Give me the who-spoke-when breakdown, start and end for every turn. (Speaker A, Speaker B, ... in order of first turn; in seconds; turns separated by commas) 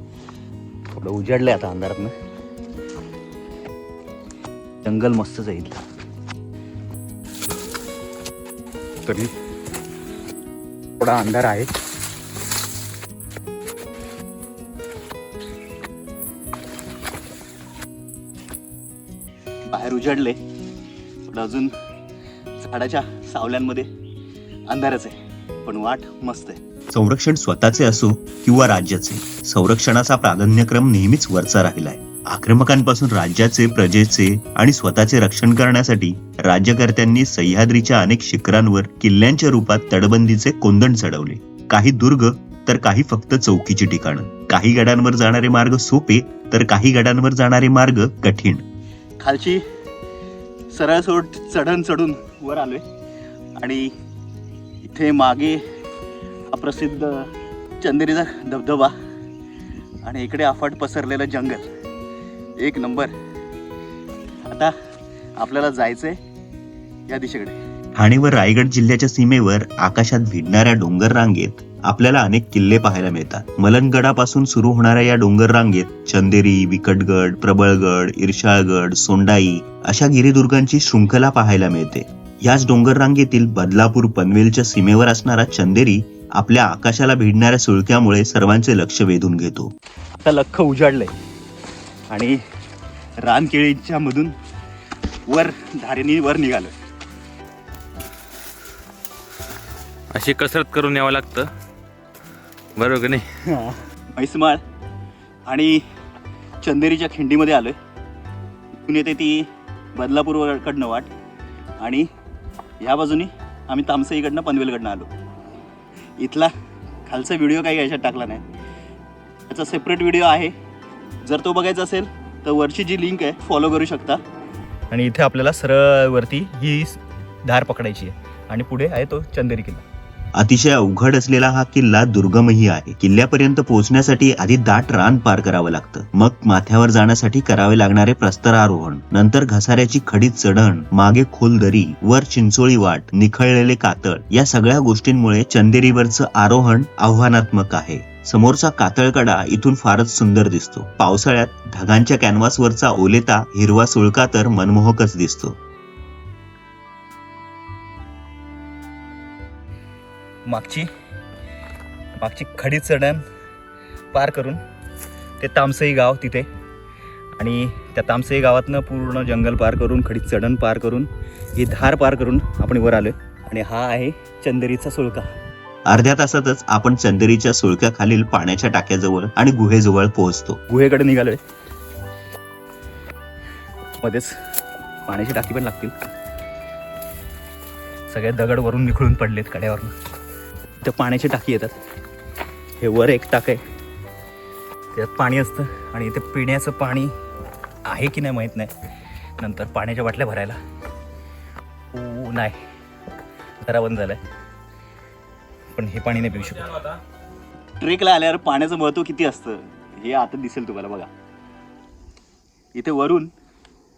Speaker A: 0.9-2.1, Speaker A: 4.8-5.8, Speaker A: 9.1-9.3, Speaker A: 11.0-11.7, Speaker A: 19.7-20.4, Speaker A: 21.2-21.7, Speaker A: 22.6-23.9, Speaker A: 24.7-26.6, Speaker B: 26.9-48.6, Speaker A: 49.2-49.6, Speaker A: 50.7-52.8, Speaker A: 53.6-53.9, Speaker A: 54.8-55.6, Speaker A: 56.5-57.3, Speaker A: 57.8-58.9, Speaker A: 60.0-61.7, Speaker A: 62.6-63.1, Speaker A: 65.4-66.2, Speaker A: 67.1-67.6, Speaker B: 68.0-89.7, Speaker A: 90.2-91.1, Speaker A: 92.1-92.4, Speaker A: 93.2-94.3, Speaker A: 95.3-96.7, Speaker C: 100.1-101.5, Speaker C: 102.8-103.3, Speaker A: 103.4-104.6, Speaker A: 105.5-105.8, Speaker A: 106.6-107.8, Speaker A: 108.9-111.1, Speaker A: 111.8-112.1, Speaker A: 112.8-115.1, Speaker A: 116.2-116.5, Speaker A: 117.1-118.4, Speaker A: 119.5-120.5, Speaker A: 121.2-124.2, Speaker A: 124.9-129.8, Speaker B: 130.4-155.6, Speaker A: 160.5-160.9, Speaker A: 162.2-163.2, Speaker A: 164.1-164.6, Speaker A: 165.4-166.5, Speaker A: 167.4-175.3, Speaker B: 175.9-180.6, Speaker A: 180.7-181.4, Speaker A: 184.0-184.4, Speaker A: 185.1-185.9, Speaker A: 188.1-189.9, Speaker A: 190.8-191.8, Speaker A: 192.8-193.6, Speaker A: 194.9-197.1, Speaker A: 197.9-198.7, Speaker A: 199.4-200.6, Speaker A: 201.9-202.6, Speaker A: 203.6-204.2, Speaker A: 205.8-207.0, Speaker A: 207.8-211.1, Speaker A: 212.8-213.3